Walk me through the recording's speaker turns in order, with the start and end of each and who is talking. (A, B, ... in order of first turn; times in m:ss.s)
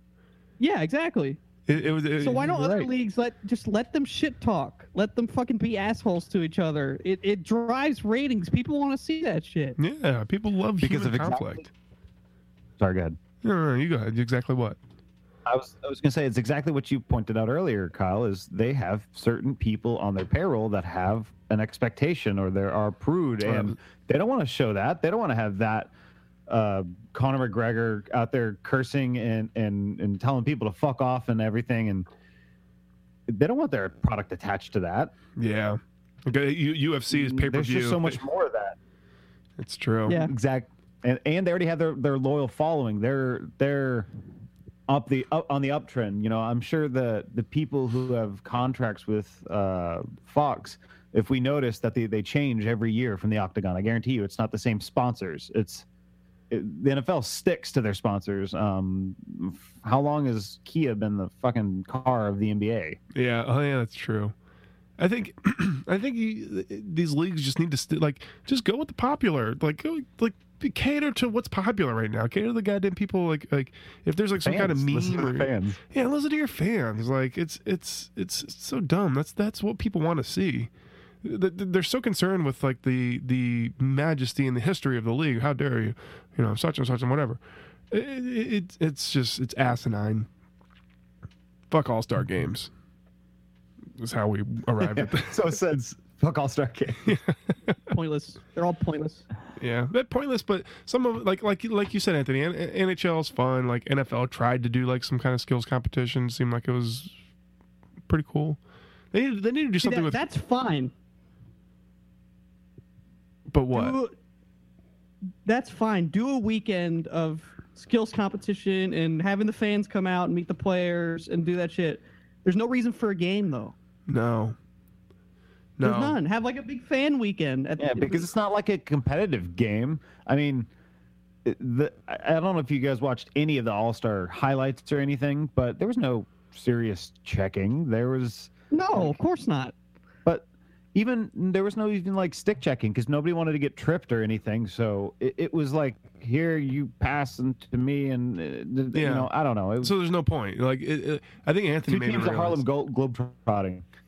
0:00.6-0:01.4 A
0:01.7-0:02.9 B
0:02.2-0:09.8 A
0:09.8-0:11.6 B
0:10.8-0:11.7 C
0:12.8-0:13.2 C
0:13.4-0:14.8 B
0:15.4-0:25.9 C
0:23.4-0:23.8 B
0:26.5-0:32.0 C
0:33.3-0:35.1 C
0:35.4-0:38.2 B
0:37.1-0:38.8 C
0:39.6-0:40.2 B
0:40.1-0:40.3 A
0:40.1-0:44.1 C
0:44.9-0:55.8 C
0:56.5-1:03.0 C
1:03.1-1:04.3 B
1:05.0-1:20.7 B
1:14.4-1:15.8 C
1:21.2-1:27.4 B
1:27.9-1:30.3 B
1:31.7-1:32.7 B
1:34.0-1:35.4 B
1:34.8-1:37.2 C
1:37.0-1:37.8 B
1:37.9-1:39.2 A
1:39.6-1:47.1 B
1:48.1-1:48.6 B
1:49.1-1:50.2 B
1:49.8-1:50.9 A
1:53.5-1:54.0 B
1:53.7-1:54.1 A
1:55.4-2:03.7 A
2:04.1-2:04.6 B
2:05.8-2:06.2 B
2:05.8-2:08.2 A
2:07.8-2:10.7 C
2:11.4-2:19.2 C
2:18.7-2:19.7 A
2:20.2-2:29.9 C
2:28.9-2:29.3 B
2:29.8-2:32.6 B
2:31.9-2:33.8 C